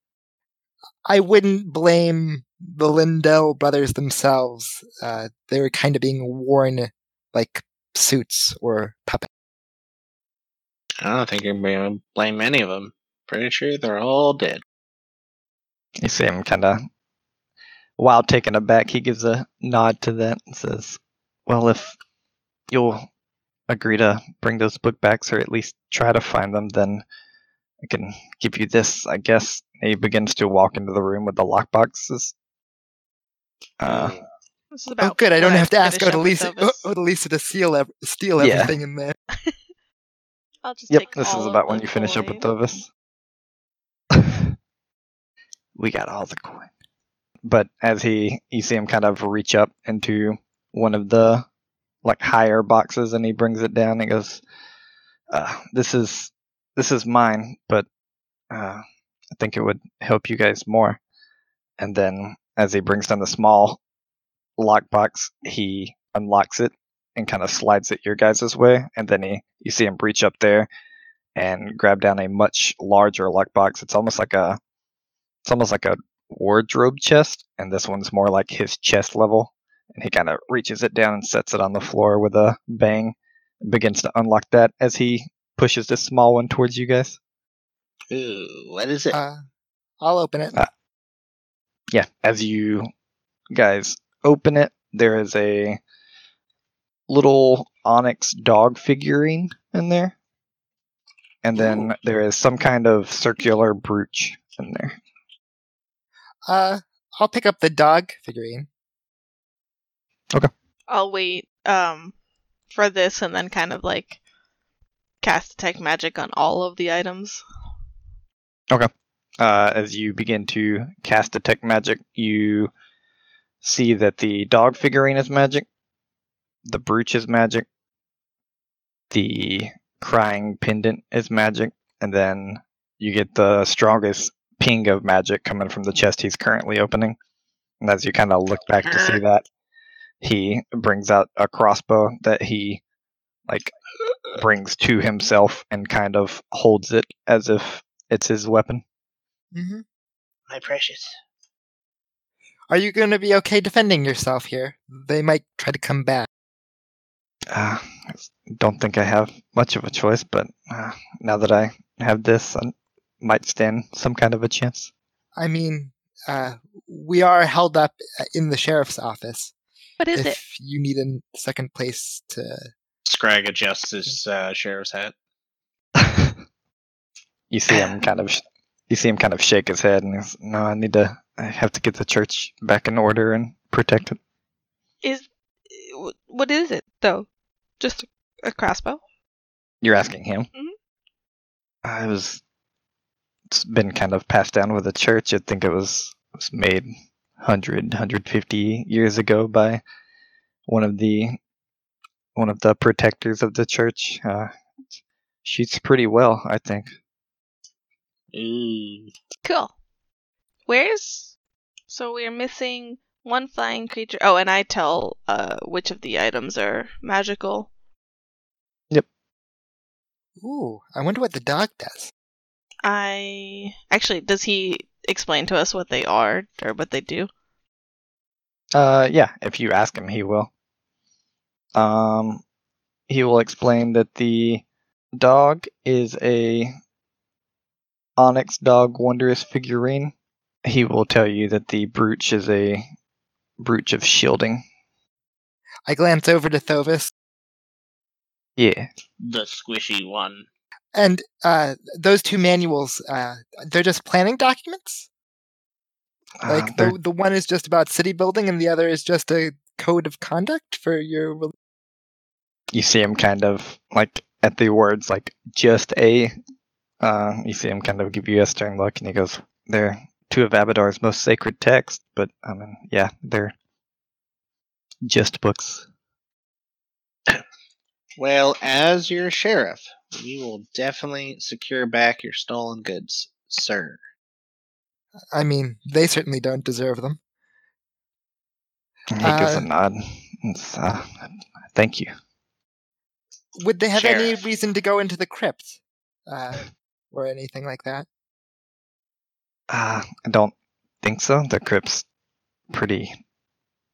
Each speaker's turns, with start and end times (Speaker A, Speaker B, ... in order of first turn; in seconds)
Speaker A: 1.1-9.3, 35.0-39.1, 89.1-89.4, 90.0-90.5, 106.5-108.7, 149.5-149.8, 152.7-156.3, 165.3-169.5, 170.1-172.7, 220.4-222.1, 245.8-247.1, 250.9-255.1, 256.5-261.5, 285.3-287.2, 289.2-289.7, 293.6-298.1
Speaker B: 11.0-14.6, 33.8-34.2, 88.1-89.2, 138.8-139.2, 150.5-151.1, 173.0-175.1, 208.3-209.1, 249.2-250.4, 278.2-284.0, 293.9-294.4
Speaker C: 16.0-16.8, 18.0-22.0, 22.7-23.1, 23.7-27.0, 27.8-32.3, 33.8-34.2, 38.4-38.7, 40.9-42.9, 44.1-44.5, 45.8-46.7, 47.4-51.5, 52.0-54.4, 55.3-57.9, 58.5-58.8, 59.3-61.0, 61.8-63.8, 64.6-70.7, 71.3-74.6, 75.4-87.2, 91.9-92.9, 93.5-95.8, 97.1-100.1, 101.4-105.0, 118.7-122.7, 123.6-125.7, 126.7-127.7, 129.1-137.2, 137.8-139.4, 140.2-142.8, 144.3-148.8, 157.5-164.9, 176.0-176.3, 177.5-184.2, 189.8-190.5, 191.8-192.4, 193.5-196.9, 197.4-199.8, 200.7-201.4, 202.3-204.5, 205.4-206.9, 228.7-230.5, 231.7-232.4, 233.1-234.6, 235.1-236.7, 238.2-240.1, 240.6-242.9, 243.6-244.6, 248.6-248.9, 256.4-256.9, 262.7-266.3, 267.0-273.5, 275.0-275.8, 289.1-292.1, 299.7-302.0, 302.7-303.1
Speaker D: 34.7-36.9, 40.6-42.4, 110.9-112.1, 112.7-114.2, 115.2-117.4, 170.0-170.4, 185.0-187.3, 187.8-189.0, 209.4-209.7, 210.7-211.3, 211.9-217.7, 222.8-227.3